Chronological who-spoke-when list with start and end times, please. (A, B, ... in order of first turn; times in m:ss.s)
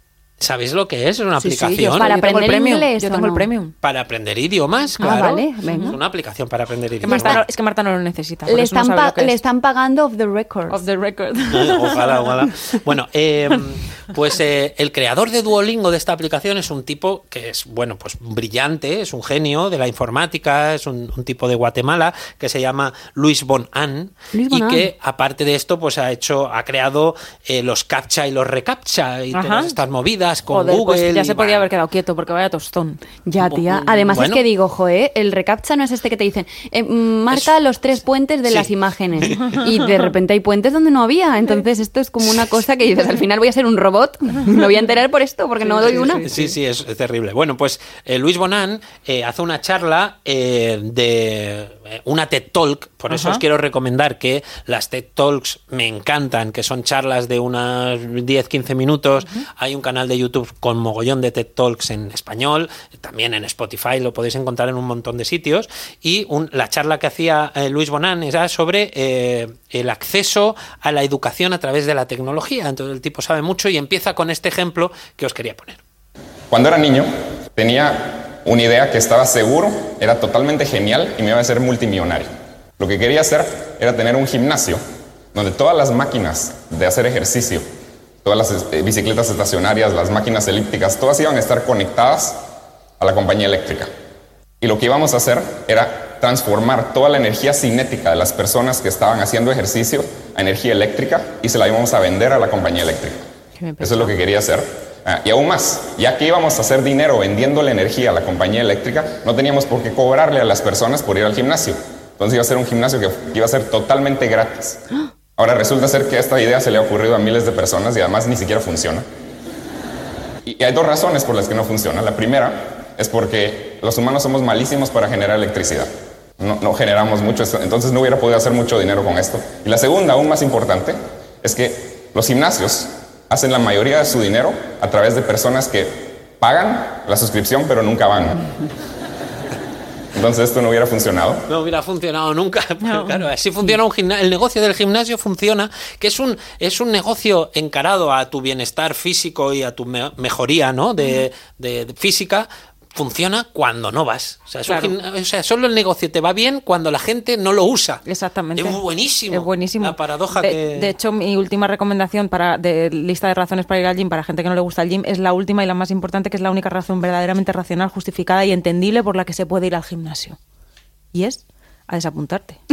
0:00.4-0:02.1 A
0:01.4-0:03.7 B
0:02.0-0:03.5 C
0:03.8-0:07.4 A
0:05.0-0:06.0 B
0:05.0-0:06.0 C
0:07.0-0:09.4 B
0:07.0-0:07.4 C
0:08.5-0:10.8 C
0:10.7-0:12.5 B
0:11.5-0:31.7 A
0:24.3-0:24.9 C
0:29.3-0:29.8 B
0:30.5-0:33.0 B
0:33.2-0:46.3 C
0:33.4-0:34.4 A
0:38.4-0:39.7 A
0:45.6-0:46.5 B
0:46.1-1:15.8 A
0:53.1-0:53.4 B
1:16.5-1:24.8 D
1:25.3-1:27.6 D
1:28.2-1:32.4 D
1:33.0-1:33.9 D
1:34.6-1:43.2 D
1:43.6-1:44.1 B
1:43.8-1:54.8 D
1:55.4-1:59.0 D
2:00.4-2:18.5 D
2:20.1-2:21.4 D
2:21.5-2:38.0 A
2:22.8-2:23.2 B
2:34.6-2:34.9 B
2:38.0-2:50.4 B
2:38.6-2:40.9 A
2:51.1-2:52.6 B